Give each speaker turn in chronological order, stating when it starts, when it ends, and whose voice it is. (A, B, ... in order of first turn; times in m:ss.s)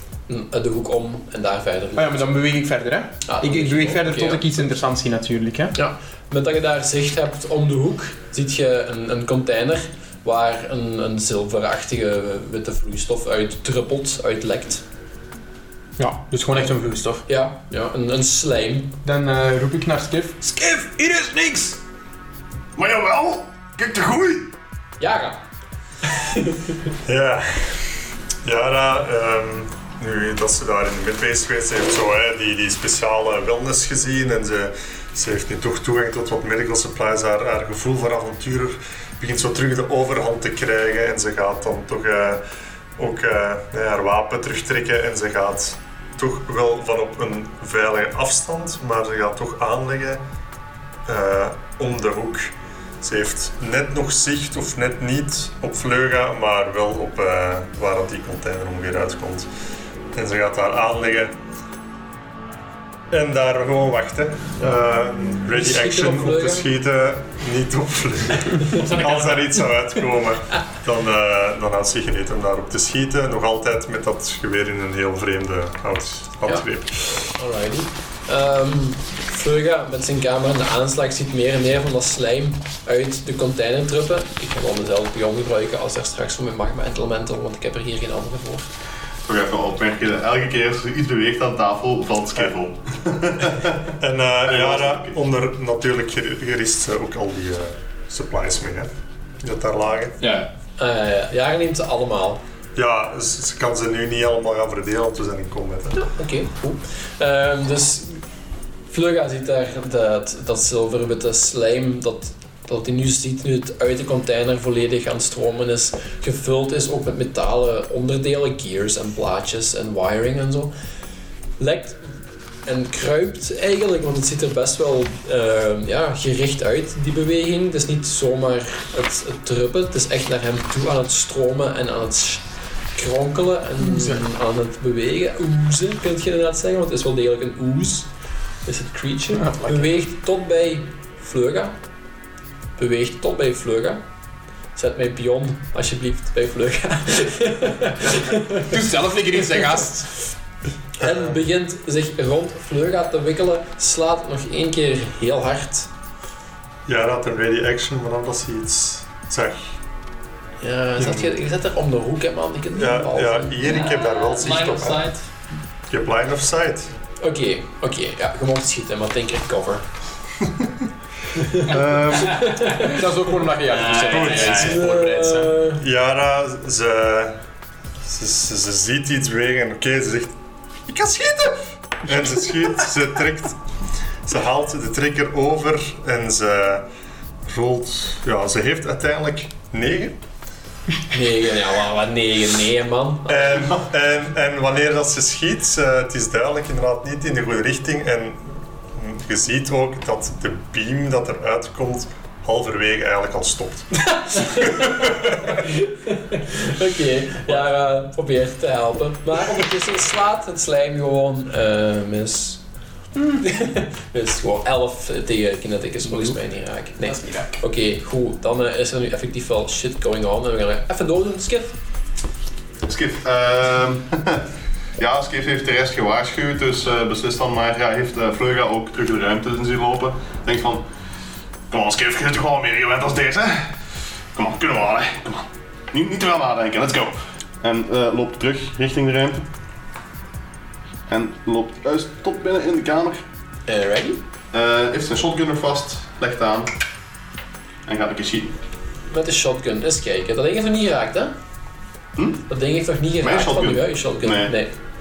0:00.3-0:02.3 A
0:02.0-0:05.7 B
0:03.2-0:04.6 A
0:05.7-0:14.8 A
0:16.0-0:17.2 B
0:17.3-0:19.0 A
0:19.0-0:21.8 B
0:22.8-0:24.5 C
0:25.0-0:25.4 A
0:26.0-0:26.7 A
0:27.0-0:42.4 D
0:43.0-0:50.2 D
0:51.0-0:59.5 D
1:00.1-1:01.3 D
1:03.1-1:17.3 D
1:05.5-1:06.7 A
1:08.7-1:09.7 E
1:17.3-1:28.7 A
1:29.2-1:33.9 C
1:34.0-1:38.9 D
1:34.5-1:35.1 C
1:39.4-1:40.1 D
1:40.2-1:40.5 E
1:40.8-1:42.4 A
1:42.8-1:46.0 D
1:45.9-1:48.2 A
1:48.9-2:00.7 A
2:01.6-2:18.1 A
2:13.8-2:14.2 B
2:18.6-2:21.8 A
2:19.3-2:19.9 B
2:22.8-2:24.0 A
2:24.7-2:28.8 A
2:28.6-2:30.1 B
2:31.0-2:31.4 D
2:31.0-2:35.9 A
2:36.9-2:39.7 D
2:40.6-2:43.6 A
2:42.7-2:45.0 D
2:43.6-2:45.2 E
2:45.9-2:46.9 D
2:47.2-2:49.8 A
2:51.3-2:53.0 A
2:51.6-2:52.5 C
2:52.5-2:55.6 B
2:53.7-2:54.8 E
2:54.1-2:55.8 A
2:55.8-2:57.4 D
2:58.0-3:00.3 D
3:00.8-3:03.6 D
3:04.2-3:06.8 D
3:07.4-3:10.2 D
3:11.1-3:13.7 A
3:13.3-3:25.6 D
3:24.3-3:32.6 A
3:33.2-3:41.7 A
3:36.0-3:36.4 B
3:37.0-3:37.6 B
3:42.8-3:44.5 C
3:45.0-3:50.8 C
3:51.7-3:53.7 C
3:54.3-3:59.4 C
4:01.1-4:03.2 C
4:03.7-4:04.2 A
4:04.5-4:06.7 C
4:07.8-4:08.5 C
4:09.1-4:11.3 A
4:12.2-4:12.4 C
4:12.5-4:14.7 A
4:13.2-4:14.6 C